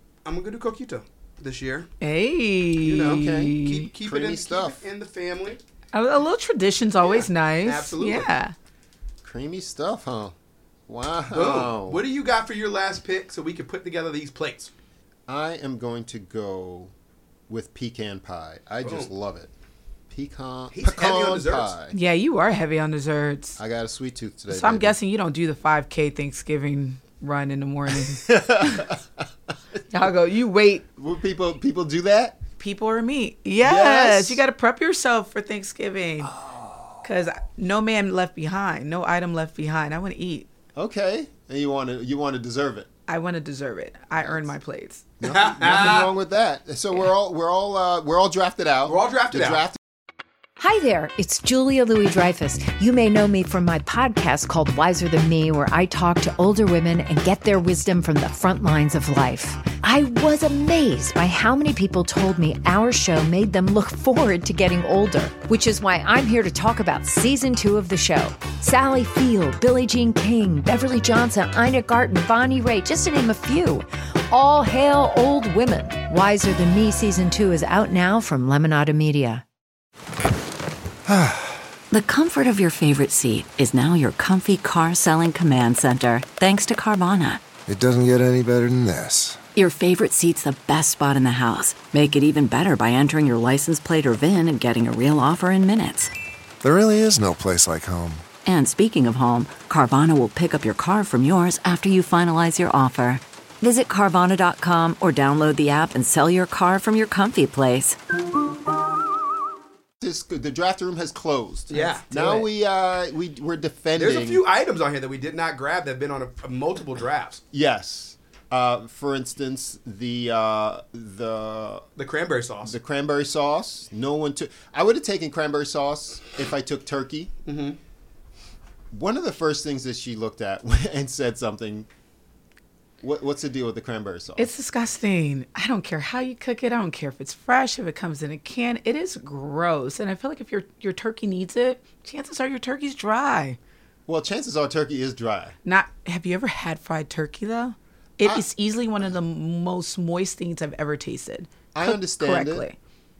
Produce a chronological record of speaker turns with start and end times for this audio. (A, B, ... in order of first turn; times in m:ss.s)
0:00.2-0:01.9 A
0:02.0-0:03.9 B
0:02.8-0:05.6 A
0:03.0-0:04.8 C
0:05.9-0:08.5 B
0:07.0-0:08.3 A
0:09.2-0:10.3 C
0:10.9-0:12.0 C
0:11.3-0:14.7 A
0:15.3-0:16.9 C
0:17.5-0:19.5 C
0:18.8-0:19.1 A
0:20.1-0:22.0 C
0:20.7-0:21.7 A
0:21.9-0:23.6 B
0:23.6-0:25.0 C
0:24.5-0:28.9 B
0:27.9-0:29.0 C
0:29.9-0:30.8 B
0:31.0-0:32.4 C
0:32.6-0:36.3 B
0:33.6-0:34.4 C
0:36.3-0:37.0 C
0:37.0-0:40.5 B
0:40.7-0:42.9 C
0:43.1-0:45.0 B
0:44.2-0:44.5 C
0:45.2-0:49.8 C
0:45.2-0:46.1 A
0:48.9-0:49.6 A
0:50.6-1:19.4 D
1:21.1-1:21.6 E
1:21.9-1:27.5 F
1:27.6-1:29.4 E
1:29.5-1:36.1 F
1:36.6-1:38.3 E
1:38.4-1:48.0 F
1:50.0-1:54.4 C
1:51.7-1:52.1 A
1:51.8-1:52.4 B
1:54.0-1:57.4 A
1:57.5-2:01.8 C
2:02.0-2:02.8 A
2:02.6-2:07.3 C
2:07.4-2:07.8 A
2:08.9-2:11.9 C
2:13.0-2:14.5 C
2:14.4-2:23.6 B
2:24.1-2:25.5 C
2:25.6-2:32.8 B
2:31.7-2:32.6 C